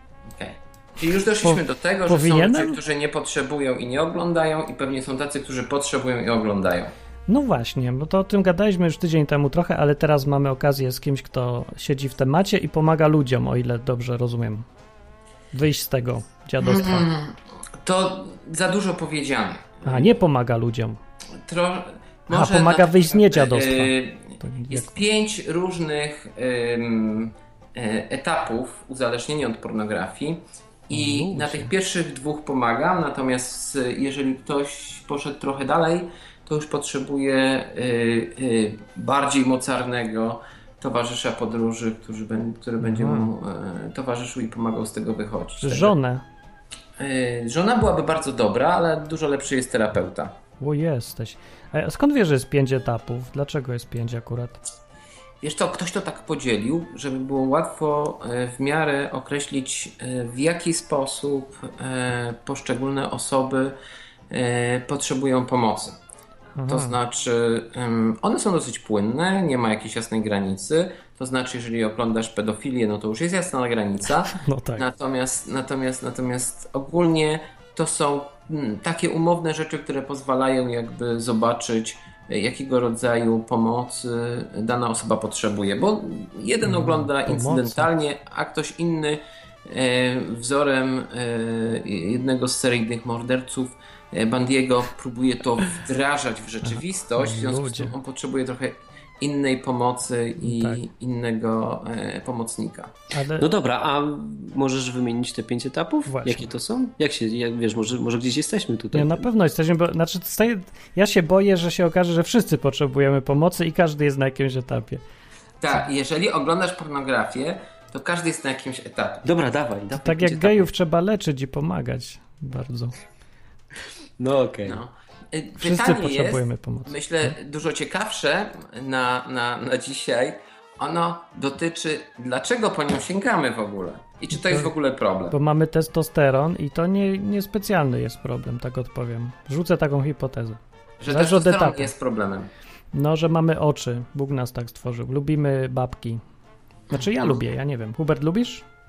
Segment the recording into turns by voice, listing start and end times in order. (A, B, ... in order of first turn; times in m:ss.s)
0:00.3-0:06.9 A
0:01.4-0:02.8 B
0:07.3-0:14.6 B
0:15.5-0:17.0 B
0:16.6-0:20.1 A
0:19.8-0:21.0 B
0:21.4-0:45.9 A
0:22.3-0:24.9 B
0:30.9-0:31.7 B
0:42.8-0:43.3 B
0:45.6-0:46.2 B
0:47.0-0:50.4 A
0:50.6-0:54.6 B
0:55.4-1:03.8 A
1:04.3-1:06.0 A
1:06.6-1:07.0 B
1:06.7-1:42.9 A
1:14.3-1:14.8 B
1:26.6-1:27.9 B
1:36.6-1:37.9 B
1:40.4-1:40.8 B
1:43.1-1:43.5 B
1:43.4-1:49.3 C
1:46.1-1:46.5 B
1:48.9-1:55.0 B
1:55.6-1:59.2 A
1:59.2-2:00.7 C
2:00.0-2:02.9 B
2:04.2-2:04.8 C
2:04.6-2:15.3 A
2:05.6-2:06.9 B
2:14.3-2:14.7 B
2:15.3-2:21.9 B
2:21.0-2:22.5 A
2:22.9-2:26.2 B
2:26.9-2:28.6 B
2:26.9-2:27.4 A